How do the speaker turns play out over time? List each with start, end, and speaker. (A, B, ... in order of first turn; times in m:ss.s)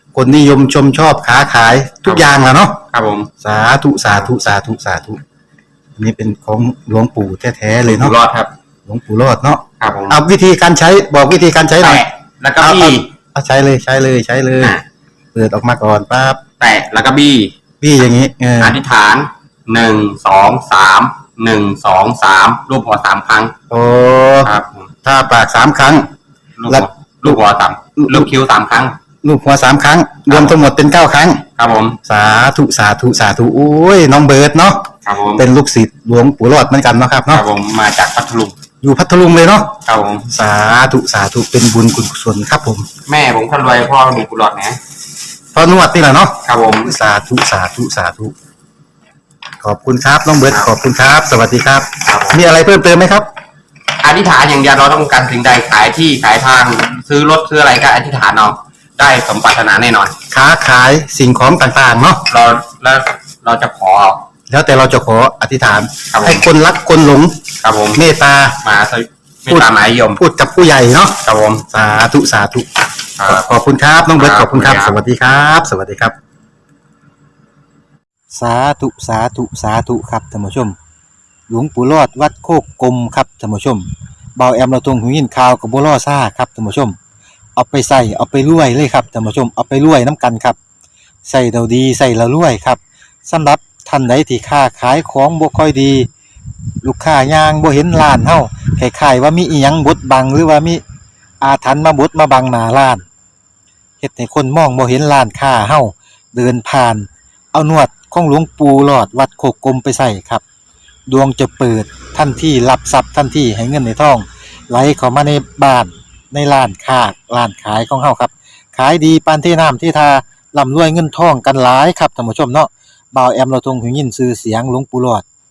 0:00.1-0:02.8 A
0:02.9-0:03.3 B
0:03.4-0:05.2 A
0:06.0-0:08.1 A
0:07.7-0:08.5 B
0:08.9-0:12.0 A
0:09.8-0:10.2 B
0:11.8-0:13.1 B
0:12.6-0:14.7 A
0:15.3-0:16.4 A
0:16.6-0:23.5 B
0:17.8-0:18.8 A
0:23.7-0:24.5 A
0:24.4-0:24.9 B
0:25.0-0:26.1 A
0:26.6-0:29.0 B
0:26.7-0:27.4 A
0:28.0-0:28.3 A
0:29.2-0:31.4 A
0:30.3-0:30.6 B
0:31.6-0:32.0 B
0:32.0-0:37.4 A
0:35.0-0:35.4 B
0:37.3-0:38.6 B
0:38.8-0:42.9 A
0:39.8-0:40.3 B
0:43.1-0:44.8 B
0:45.5-0:48.3 A
0:46.4-0:46.9 B
0:49.6-0:53.3 A
0:52.0-0:52.4 B
0:54.0-1:00.2 B
1:00.3-1:02.3 A
1:02.3-1:04.2 B
1:04.5-1:08.6 A
1:06.1-1:06.5 B
1:07.6-1:08.0 B
1:08.6-1:10.2 B
1:09.5-1:12.6 A
1:11.2-1:11.6 B
1:13.2-1:13.4 B
1:13.2-1:16.1 A
1:14.0-1:15.0 B
1:18.3-1:20.8 A
1:21.5-1:27.0 A
1:27.6-1:30.6 A
1:31.2-1:36.1 A
1:36.8-1:40.8 A
1:41.4-1:43.0 A
1:44.0-1:50.4 A
1:51.1-2:05.2 A